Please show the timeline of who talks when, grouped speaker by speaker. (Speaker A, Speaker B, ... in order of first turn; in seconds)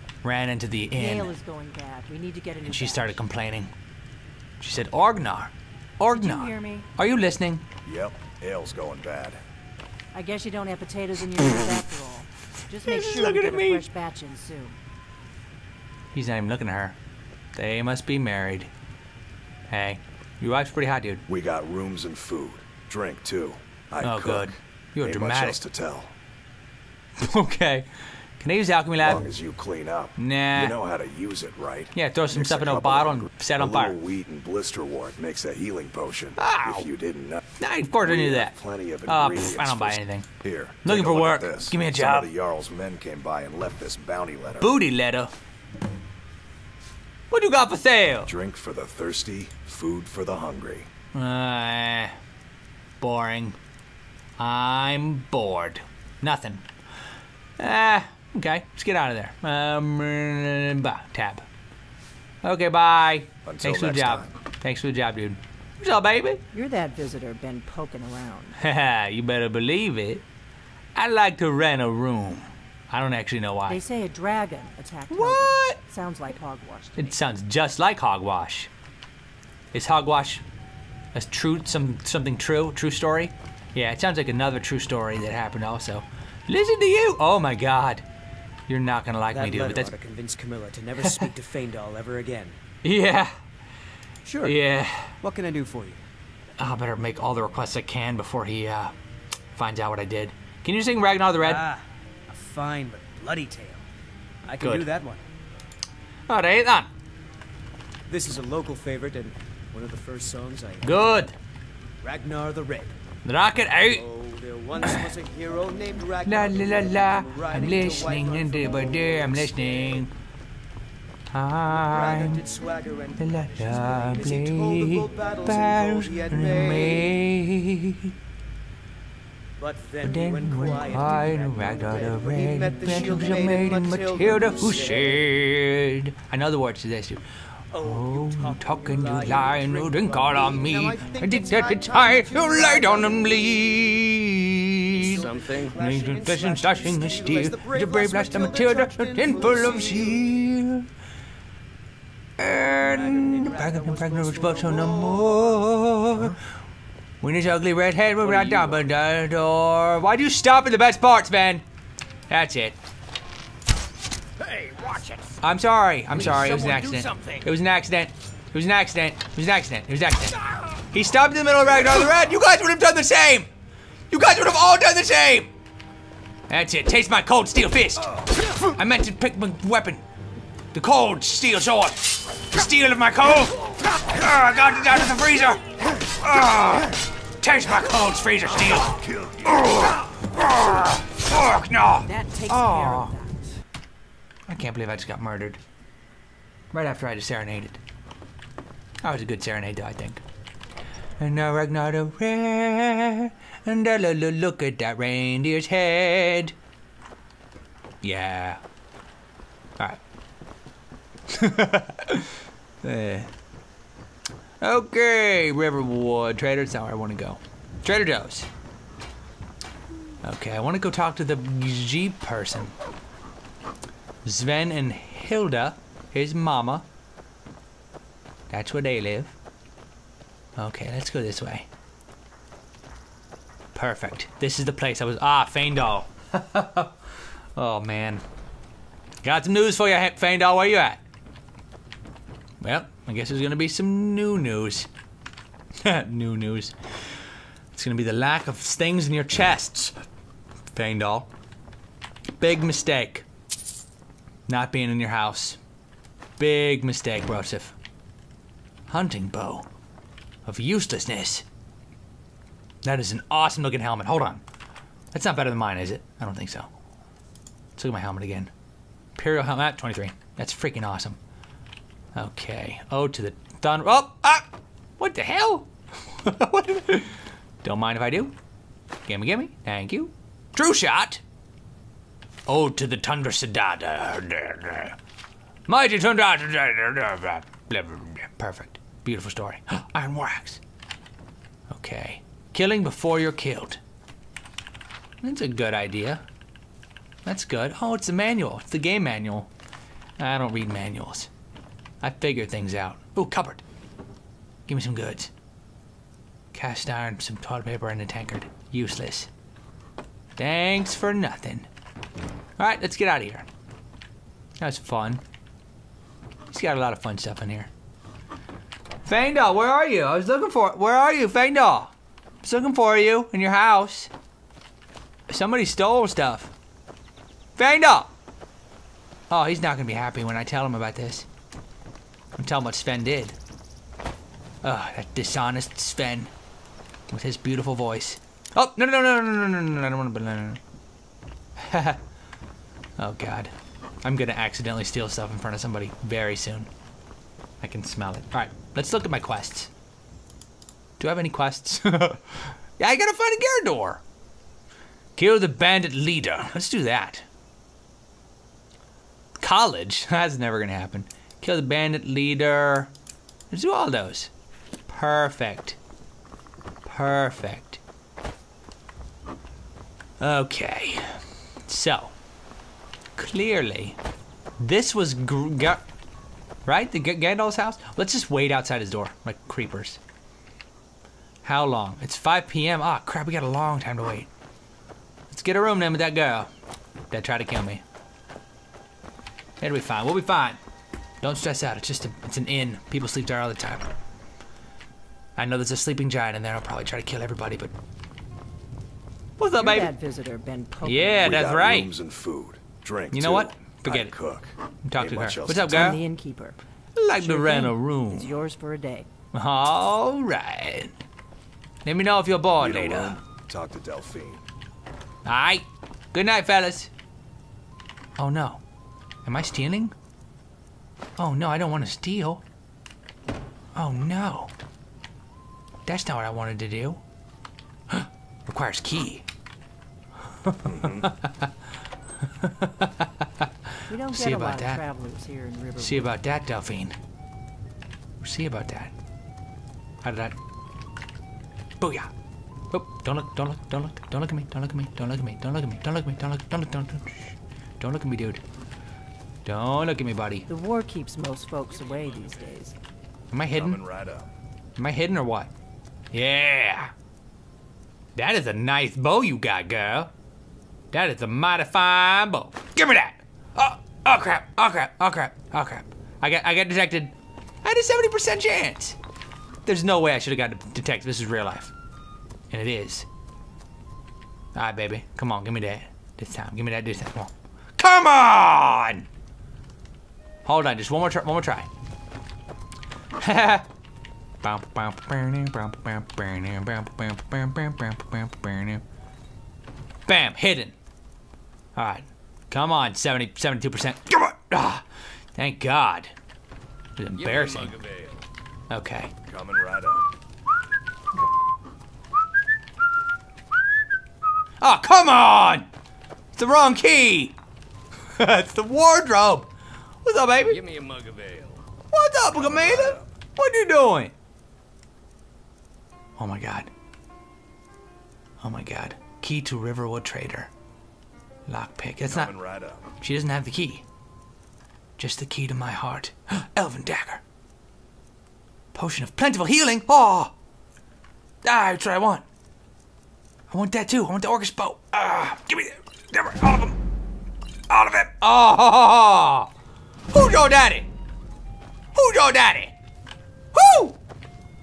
Speaker A: 0.2-1.3, 2.6-3.7, 4.6-7.6, 12.8-13.8, 16.1-17.0, 17.5-18.7, 19.7-21.2, 24.0-25.6, 27.1-29.3, 30.2-30.8, 31.9-34.0, 36.4-36.9, 37.6-38.5, 39.0-40.3, 40.8-42.3, 44.6-45.3, 47.3-48.3, 51.1-52.1, 53.0-53.6, 54.4-56.6, 57.6-61.4, 62.4-66.4, 68.6-70.2, 70.9-73.8, 75.1-75.8, 77.0-78.7, 79.7-80.4, 81.1-88.0, 88.7-89.9, 91.0-91.3, 92.8-93.3, 94.4-95.1, 96.6-98.9, 99.5-101.7, 104.6-104.9, 106.3-106.9, 110.8-111.3, 113.2-114.0, 116.2-120.1, 121.3-122.4, 123.2-128.1, 130.0-137.2, 137.7-150.8, 152.4-156.4, 157.2-161.6, 162.3-162.8, 165.4-173.5, 174.1-175.5, 176.5-180.0, 180.7-193.1, 194.5-195.6, 196.7-197.8, 199.0-200.2, 201.2-206.5, 208.0-208.6, 211.3-213.3, 214.6-218.5, 220.2-222.7, 224.2-226.8, 228.5-229.3, 230.6-231.7, 233.7-236.9, 237.6-238.2, 239.2-241.0, 242.6-244.9, 245.8-246.7, 247.7-249.9, 250.7-251.3, 252.4-253.2, 254.5-255.6, 256.4-257.8, 258.9-259.7, 260.4-261.4, 262.8-264.4, 265.1-266.7, 267.8-268.5, 269.1-271.2, 272.1-274.5, 275.0-278.3, 279.0-281.2, 282.5-285.0, 285.7-290.6, 291.7-293.8, 295.2-296.2, 297.2-299.5, 300.2-301.3, 302.0-303.6, 304.7-305.3, 306.5-309.3, 310.4-311.7, 312.6-313.5, 314.6-315.2, 316.5-317.7, 319.0-324.1, 325.3-326.5, 327.6-328.1, 329.3-331.3, 332.4-333.4, 334.6-336.3, 337.1-340.6, 341.6-342.0, 343.0-346.7, 347.6-349.7, 351.0-354.0, 355.1-357.2, 359.4-362.9, 363.5-364.3, 364.9-365.8, 366.8-367.8, 370.2-372.1, 373.1-374.0, 374.6-375.8, 376.6-380.0, 381.4-384.3, 385.3-386.5, 387.1-387.8, 389.6-390.6, 391.2-393.9, 395.4-397.7, 399.4-399.9, 400.8-401.9, 403.1-404.1, 404.8-406.0, 406.9-408.3, 409.3-410.9, 411.8-413.2, 415.2-416.9, 418.2-418.6, 419.2-419.9, 421.2-422.4, 423.7-424.5, 425.9-427.0, 427.9-429.2, 430.4-431.5, 432.2-433.5, 434.1-434.8, 435.8-436.9, 438.2-438.9, 440.0-440.4, 441.8-442.1, 442.7-448.4, 449.4-450.5, 453.3-453.8, 454.8-455.5, 456.1-456.9, 458.1-460.1, 460.9-469.0, 469.6-471.7, 472.5-473.1, 474.5-479.1, 480.4-481.7, 483.2-483.7, 484.4-488.8, 490.1-490.7, 491.8-494.8, 495.4-496.1, 497.0-497.8, 498.7-499.1, 504.6-505.7, 506.3-507.4, 508.1-509.5, 510.0-510.7, 511.9-514.1, 516.2-516.7, 518.4-520.5, 521.5-522.3, 523.0-523.8, 525.0-527.2, 528.7-530.3, 531.4-532.2, 533.5-536.8, 537.7-539.5, 540.1-540.9, 541.9-542.7, 543.5-544.0
Speaker B: 0.9-3.2, 6.1-6.9, 10.1-14.8, 66.5-68.6, 73.7-77.2, 166.4-167.2, 192.0-193.5, 399.5-401.4, 405.6-406.6, 407.1-409.1, 433.9-436.1, 450.5-452.8
Speaker C: 7.8-9.4, 21.3-26.1, 29.0-37.4, 38.0-44.8, 48.2-50.9, 63.4-64.3, 188.8-189.6, 401.2-405.9, 412.6-414.4, 430.6-431.1, 453.5-454.3, 499.3-500.1, 512.4-513.1, 522.0-522.9
Speaker D: 89.3-92.6, 94.2-94.6, 95.2-96.0, 101.4-103.8, 104.4-105.2, 108.1-111.2, 112.0-112.9, 113.9-120.0, 121.7-127.2, 129.6-135.3, 137.7-143.8, 144.9-150.2, 152.8-155.7, 158.4-158.7
Speaker E: 145.3-145.7, 497.2-498.2, 510.6-511.6